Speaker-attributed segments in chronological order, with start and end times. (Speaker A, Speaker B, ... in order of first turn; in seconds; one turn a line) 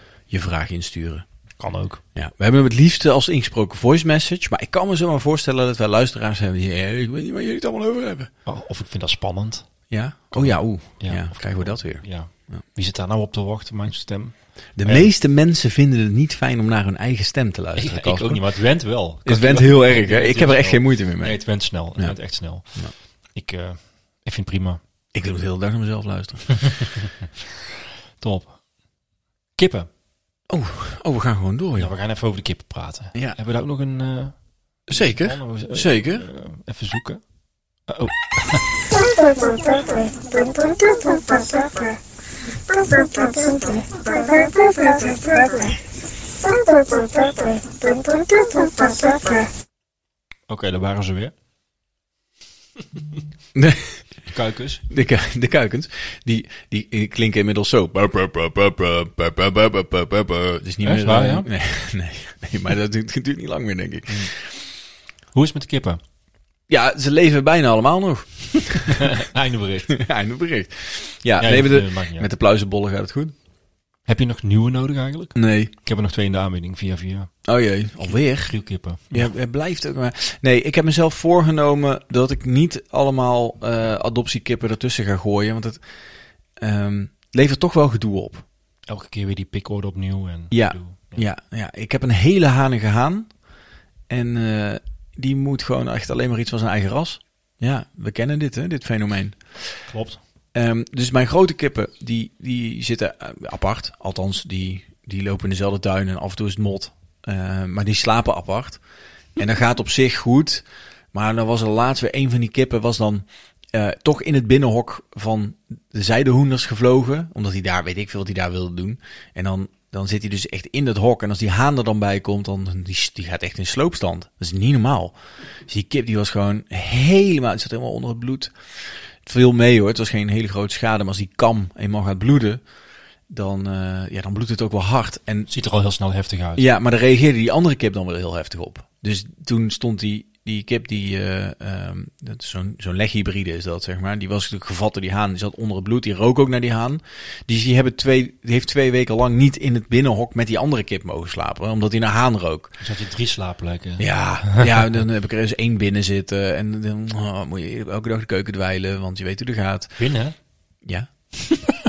Speaker A: 0.3-1.2
Speaker B: 1.6-2.0
Speaker A: 2.1-8.3
Speaker B: 8.4-9.7
Speaker A: 9.9-12.6
Speaker B: 10.3-15.1
Speaker A: 14.8-18.4
Speaker B: 17.8-24.8
Speaker A: 19.2-21.4
Speaker A: 25.1-26.9
Speaker B: 28.2-28.6
Speaker B: 29.6-29.9
Speaker A: 30.5-31.9
Speaker B: 31.8-34.4
Speaker A: 34.9-36.2
Speaker B: 34.9-37.2
Speaker B: 37.9-38.9
Speaker A: 42.9-43.4
Speaker B: 50.5-51.3
Speaker A: 53.5-54.1
Speaker B: 54.3-54.8
Speaker A: 54.9-64.5
Speaker B: 60.8-61.5
Speaker B: 65.3-66.0
Speaker A: 66.7-69.2
Speaker B: 68.8-70.0
Speaker A: 69.9-73.3
Speaker B: 71.4-72.3
Speaker B: 74.0-77.3
Speaker A: 75.3-75.7
Speaker A: 77.4-78.6
Speaker B: 78.0-79.3
Speaker A: 79.1-85.8
Speaker A: 86.6-88.4
Speaker B: 88.9-91.2
Speaker A: 90.5-93.3
Speaker A: 94.1-99.8
Speaker B: 99.9-100.2
Speaker A: 100.5-108.8
Speaker A: 109.3-125.1
Speaker A: 125.7-132.6
Speaker A: 133.3-135.5
Speaker B: 135.5-136.6
Speaker A: 136.6-152.8
Speaker B: 152.8-154.9
Speaker A: 154.0-160.0
Speaker B: 160.0-160.3